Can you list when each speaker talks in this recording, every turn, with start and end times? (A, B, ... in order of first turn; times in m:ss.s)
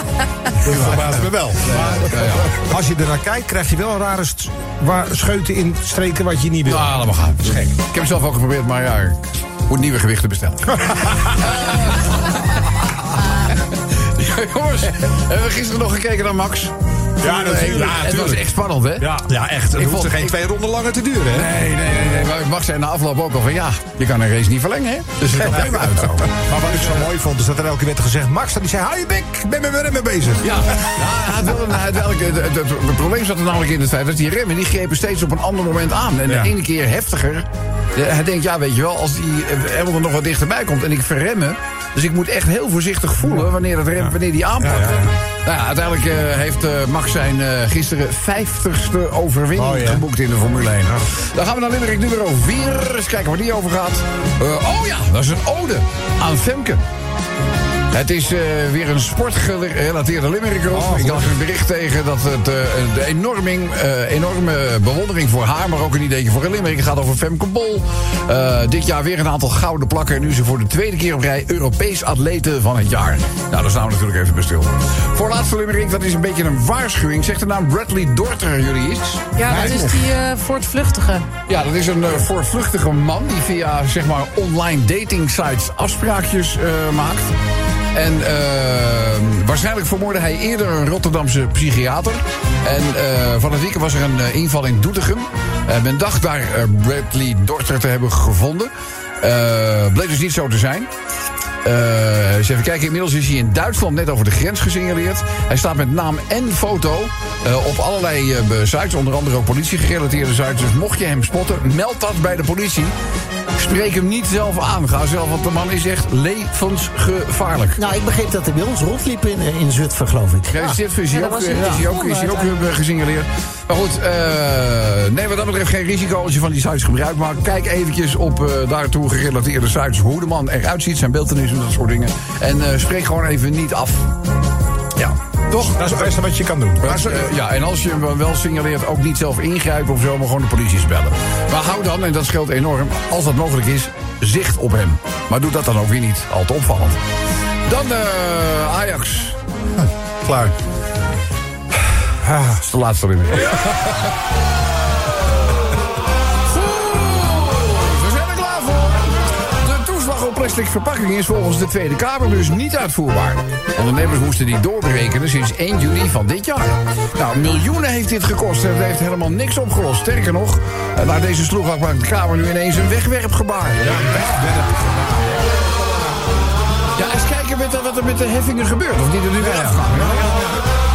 0:00.6-0:02.6 A
0:00.6-0:07.0 B
0:06.6-0:19.2 A
0:17.2-0:18.4 B
0:17.8-0:18.1 C
0:19.0-0:21.5 C
0:19.0-0:20.1 B
0:19.7-0:20.4 A
0:21.3-0:26.3 A
0:25.4-0:30.7 B
0:30.4-0:56.8 A
0:44.6-0:45.1 B
0:49.6-0:50.0 B
0:57.9-1:19.3 A
1:00.8-1:01.3 B
1:19.4-1:21.3 D
1:19.5-1:20.0 B
1:21.5-1:27.3 A
1:27.9-1:40.9 A
1:41.6-1:52.9 A
1:53.6-1:57.8 A
1:57.8-2:00.8 E
2:00.5-2:14.1 A
2:01.1-2:02.6 D
2:15.0-2:16.1 A
2:15.6-2:17.1 B
2:16.8-2:27.0 A
2:27.6-2:29.4 A
2:32.5-2:33.9 A
2:36.4-2:54.0 A
2:53.8-2:55.4 B
2:57.0-3:00.2 A
2:59.4-3:00.6 B